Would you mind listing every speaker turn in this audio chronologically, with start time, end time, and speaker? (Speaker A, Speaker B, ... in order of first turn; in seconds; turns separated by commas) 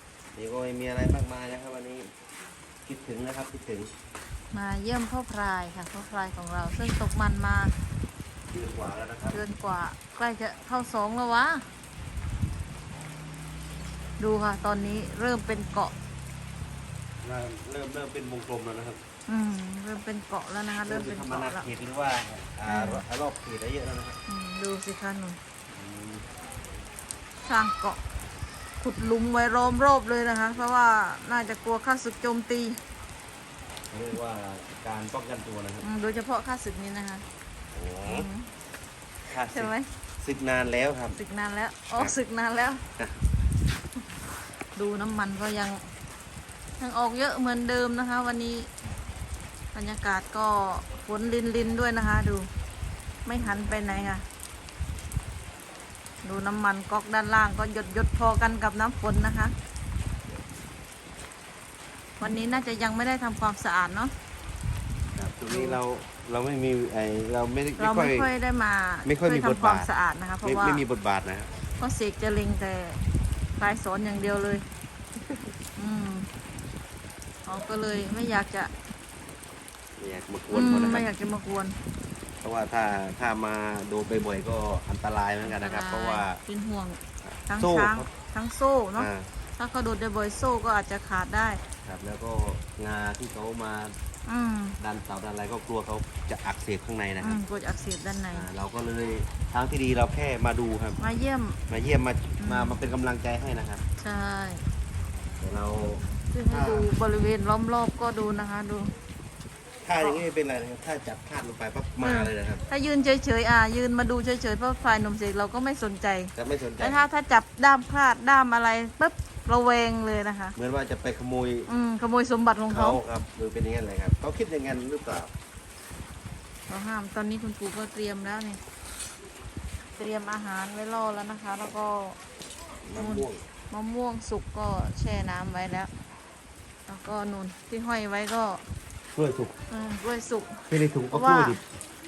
Speaker A: 0.3-2.1, Speaker A: 2.8-3.9, Speaker B: 4.5-7.7, Speaker A: 8.5-9.4, Speaker B: 9.3-11.7, Speaker B: 14.2-15.9, Speaker A: 17.2-19.0, Speaker B: 19.3-21.7, Speaker A: 20.8-24.2, Speaker B: 22.7-23.0, Speaker B: 24.3-25.4, Speaker A: 25.7-26.3, Speaker B: 27.4-28.0, Speaker B: 28.8-32.8, Speaker A: 33.9-35.9, Speaker B: 35.8-37.2, Speaker A: 37.7-38.3, Speaker B: 38.0-38.5, Speaker A: 39.3-41.2, Speaker B: 39.5-39.9, Speaker B: 41.1-42.8, Speaker B: 44.7-45.8, Speaker B: 46.8-48.7, Speaker B: 49.7-52.5, Speaker B: 53.2-54.2, Speaker A: 53.4-54.1, Speaker B: 56.2-59.5, Speaker B: 62.2-64.1, Speaker A: 65.1-68.3, Speaker B: 65.5-65.8, Speaker B: 67.8-70.8, Speaker A: 69.0-69.9, Speaker A: 70.4-71.5, Speaker B: 71.8-73.0, Speaker B: 73.6-74.6, Speaker B: 75.8-76.3, Speaker B: 77.5-78.7, Speaker A: 80.0-81.1, Speaker B: 80.5-81.8, Speaker A: 82.4-86.4, Speaker B: 85.4-91.6, Speaker A: 87.2-88.1, Speaker A: 89.0-89.3, Speaker A: 91.8-94.0, Speaker B: 94.3-94.8, Speaker A: 94.8-97.4, Speaker B: 97.2-98.5, Speaker A: 98.3-101.0, Speaker B: 101.0-101.6, Speaker A: 101.7-103.8, Speaker B: 102.4-102.8, Speaker B: 104.0-104.6, Speaker A: 105.3-106.9, Speaker B: 106.3-108.9, Speaker A: 109.8-112.6, Speaker B: 112.0-120.5, Speaker A: 116.3-117.0, Speaker A: 120.5-121.7, Speaker B: 121.7-123.0, Speaker A: 122.7-125.3, Speaker B: 126.7-128.6, Speaker B: 129.9-132.2, Speaker A: 132.8-133.4, Speaker B: 132.9-135.9, Speaker B: 136.9-138.6, Speaker A: 139.1-139.5, Speaker B: 139.7-141.6, Speaker A: 140.7-141.6